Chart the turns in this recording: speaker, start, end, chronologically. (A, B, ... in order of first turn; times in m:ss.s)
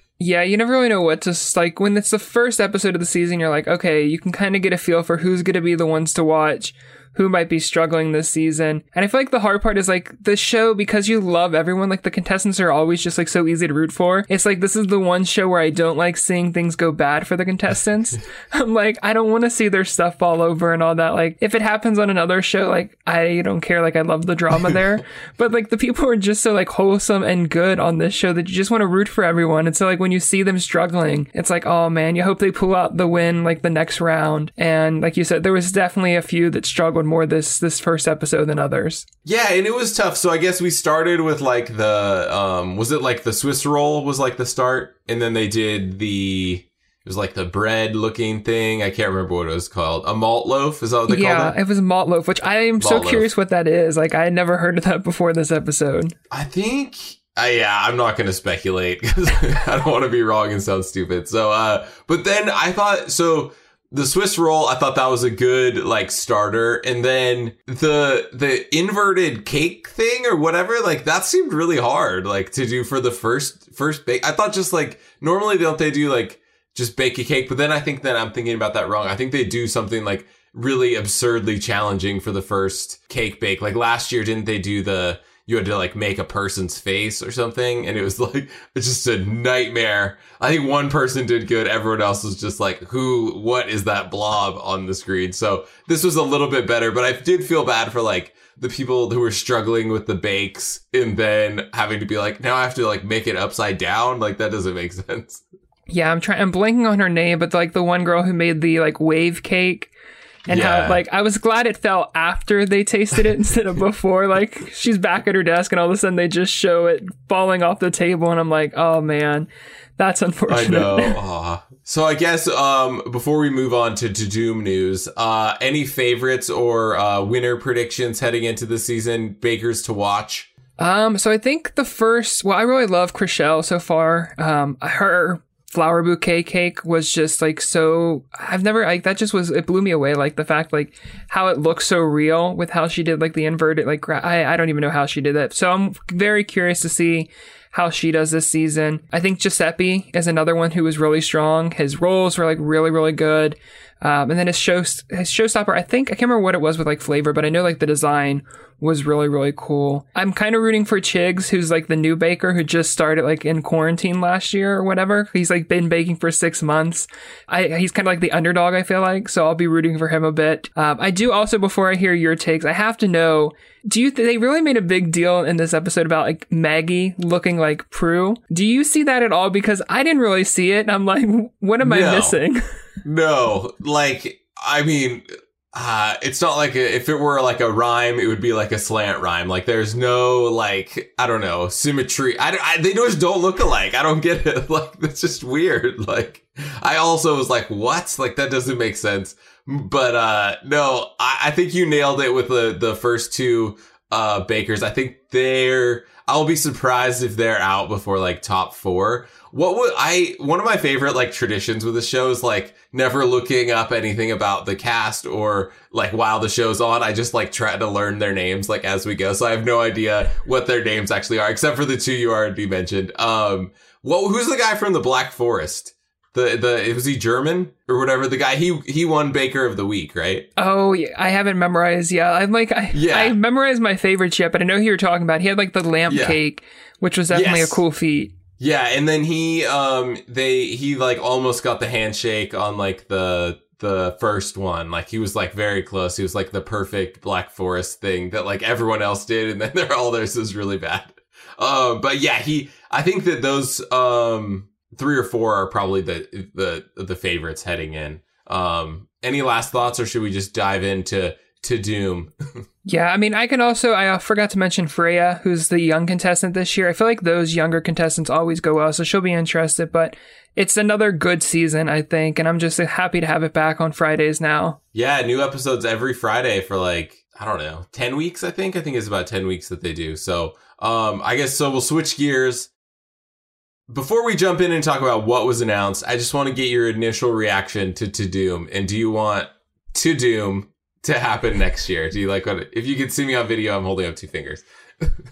0:00.2-0:39.0 A
0:39.2-0:51.6 B
0:51.1-0:56.1 A
0:52.8-0:53.3 B
0:56.3-1:45.4 B
1:45.9-1:49.9 A
1:50.5-1:51.0 B
1:50.5-2:01.2 A
2:00.5-2:10.5 B
2:10.8-3:02.6 A
3:01.8-3:02.4 B
3:03.0-3:50.5 B
3:50.6-3:58.3 A
3:52.9-3:53.4 B
3:56.1-3:56.4 B
3:57.3-3:57.8 B
3:58.6-4:22.3 B
4:22.8-4:34.8 A
4:34.9-4:42.7 B
4:43.9-4:55.1 B